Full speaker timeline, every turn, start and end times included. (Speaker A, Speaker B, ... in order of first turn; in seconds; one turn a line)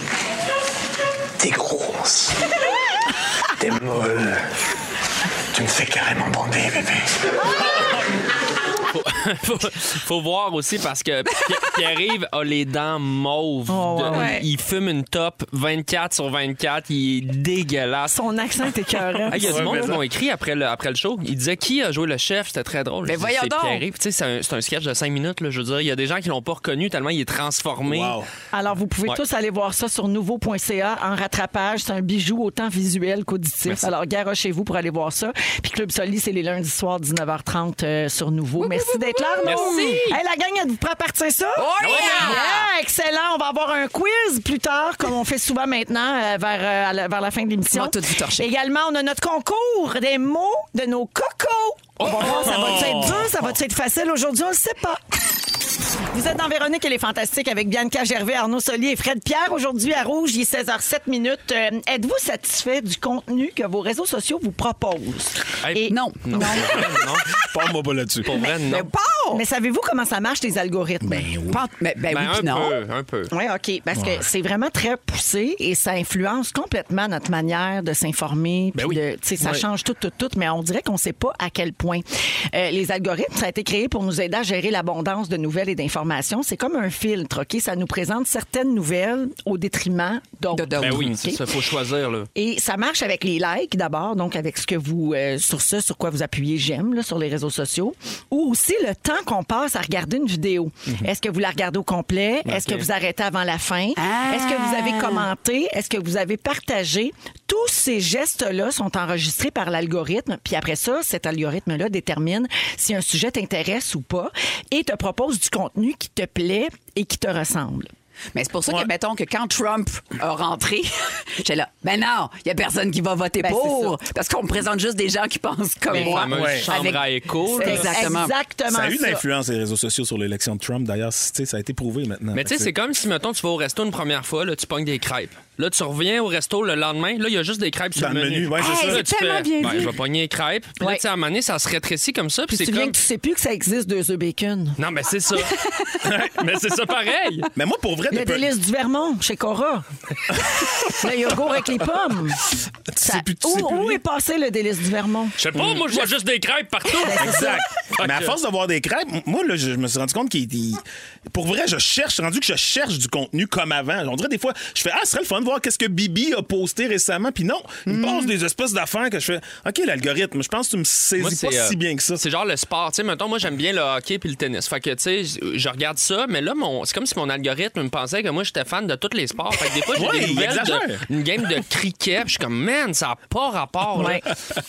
Speaker A: 1.4-2.4
Speaker A: 3.6-4.4
Speaker A: 5.5-7.1
Speaker B: 8.9-18.1
Speaker C: 13.7-14.3
Speaker D: 14.1-14.4
Speaker C: 18.1-19.9
Speaker E: 19.3-20.0
Speaker B: 19.3-28.2
Speaker D: 23.0-23.9
Speaker E: 27.9-28.3
Speaker C: 28.5-55.0
Speaker D: 38.6-40.2
Speaker B: 39.4-40.1
Speaker D: 41.5-42.7
Speaker B: 41.8-42.4
Speaker D: 47.7-48.5
Speaker E: 52.0-53.5
Speaker C: 56.1-66.5
Speaker B: 65.6-67.3
Speaker D: 65.9-66.9
Speaker E: 67.3-68.4
Speaker B: 68.2-68.9
Speaker D: 68.4-69.4
Speaker C: 69.3-71.3
Speaker E: 71.0-71.6
Speaker D: 71.5-72.8
Speaker B: 72.1-73.3
Speaker C: 73.3-91.4
Speaker E: 73.9-74.2
Speaker E: 79.4-79.6
Speaker D: 90.5-91.2
Speaker B: 90.8-92.3
Speaker C: 92.3-117.9
Speaker B: 102.5-102.9
Speaker D: 104.0-105.3
Speaker D: 118.3-128.3
Speaker C: 123.4-124.0
Speaker B: 125.9-128.0
Speaker E: 126.1-126.7
Speaker C: 127.6-129.2
Speaker E: 128.7-132.7
Speaker B: 132.3-142.9
Speaker E: 137.9-139.1
Speaker D: 138.6-140.0
Speaker C: 142.5-144.8
Speaker B: 144.8-147.5
Speaker E: 146.0-146.3
Speaker E: 147.5-148.5
Speaker C: 148.1-149.8
Speaker C: 150.8-152.4
Speaker E: 152.9-154.0
Speaker C: 153.0-155.4
Speaker B: 155.4-158.3
Speaker E: 155.5-156.0
Speaker C: 157.0-157.6
Speaker E: 157.1-172.2
Speaker D: 167.9-168.3
Speaker B: 171.2-184.3
Speaker E: 179.9-181.0
Speaker C: 183.9-184.2